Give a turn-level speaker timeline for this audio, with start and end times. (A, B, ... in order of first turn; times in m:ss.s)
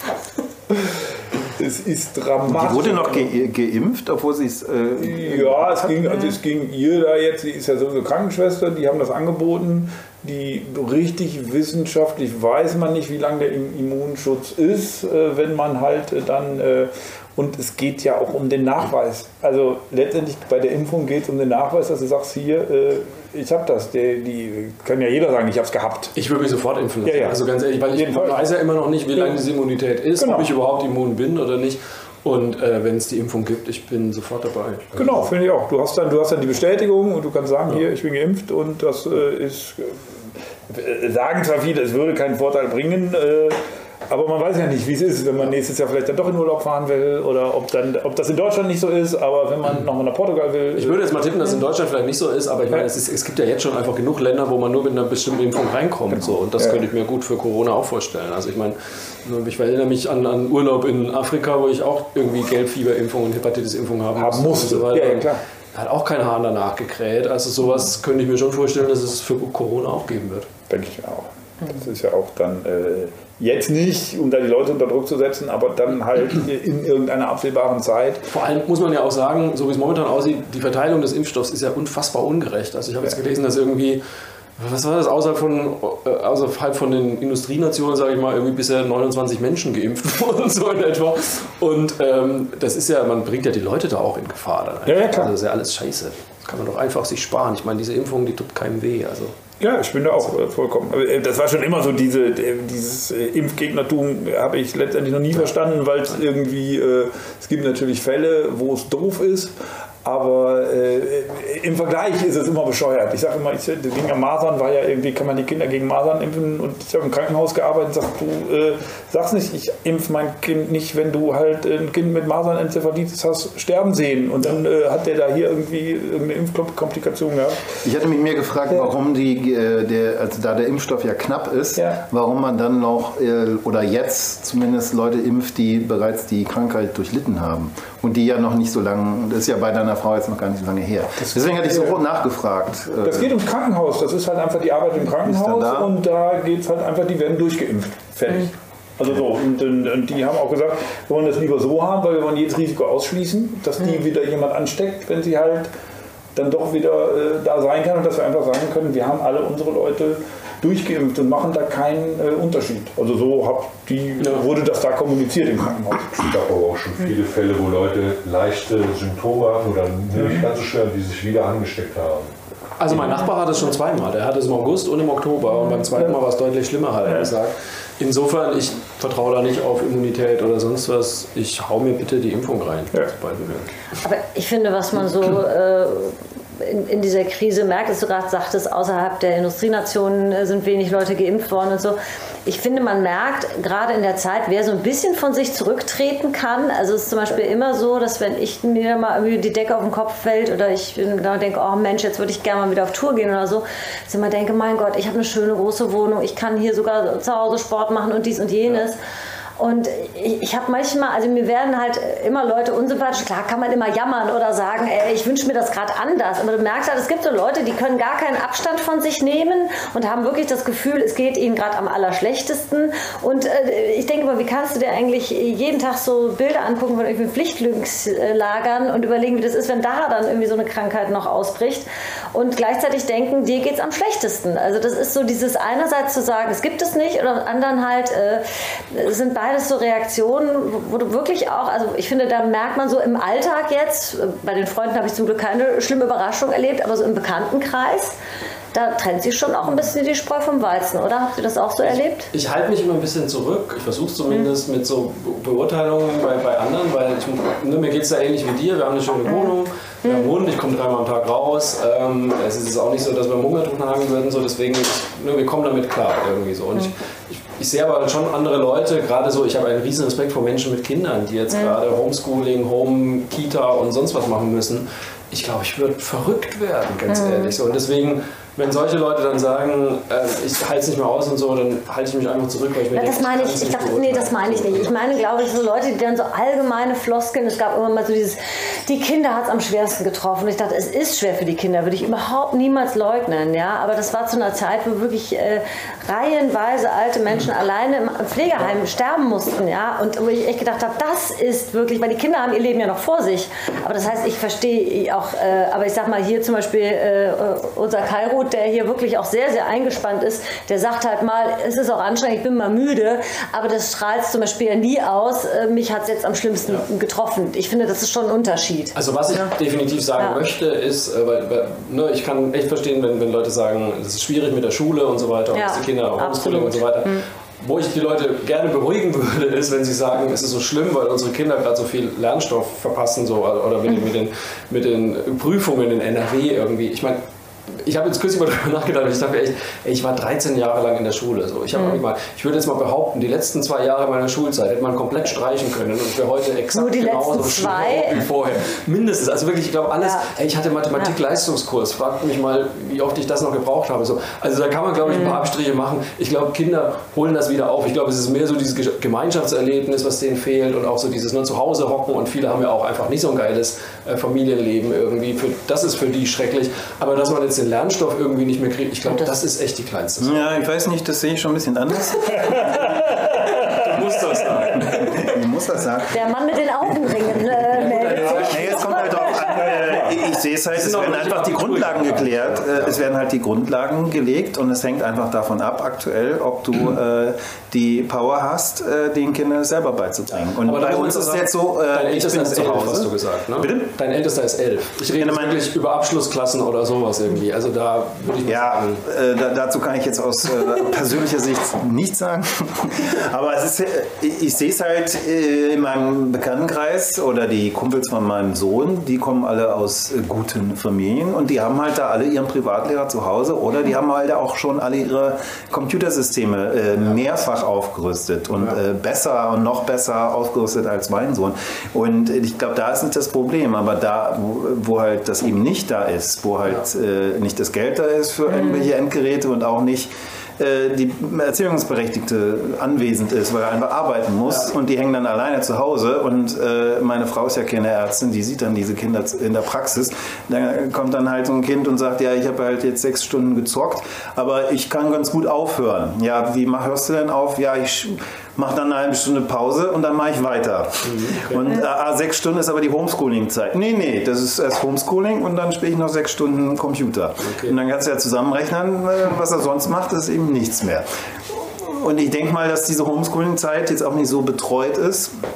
0:00.7-0:03.3 A
0:02.5-0:05.8 B
0:05.0-0:26.1 A
0:26.1-0:35.3 C
0:27.0-0:27.4 A
0:27.9-0:28.5 A
0:29.2-0:29.4 A
0:30.2-0:30.5 A
0:35.0-0:40.0 A
0:40.7-0:43.6 A
0:44.1-0:51.1 A
0:50.8-1:10.5 C
0:56.1-0:56.8 A
1:04.2-1:05.4 A
1:10.7-1:18.2 A
1:18.3-1:24.0 C
1:24.6-1:39.4 C
1:34.8-1:35.3 A
1:39.6-2:07.7 A
2:07.8-2:23.3 B
2:21.3-2:22.0 A
2:23.0-2:35.7 A
2:25.2-2:25.9 B
2:36.3-2:46.2 A
2:46.2-2:52.3 D
2:50.1-2:50.4 A
2:52.8-3:03.7 C
3:04.0-3:29.0 E
3:29.6-4:08.1 E
4:08.7-4:12.3 E
4:12.3-4:44.9 C
4:20.0-4:20.3 E
4:37.1-4:37.5 E
4:42.9-5:19.5 E
5:18.9-6:10.5 C
5:25.5-5:27.2 E
5:41.7-5:42.0 E
5:46.7-5:48.2 E
5:55.1-5:55.4 E
6:09.1-6:09.4 E
6:10.2-6:12.8 B
6:12.6-6:13.8 A
6:13.3-6:15.4 C
6:14.8-6:16.2 B
6:16.1-6:19.8 E
6:17.7-6:19.1 C
6:18.4-6:33.8 B
6:19.3-6:20.2 A
6:20.7-6:23.0 C
6:30.5-6:39.0 C
6:35.1-6:35.7 B
6:38.4-7:45.3 B
7:31.0-7:31.7 C
7:37.4-7:37.7 C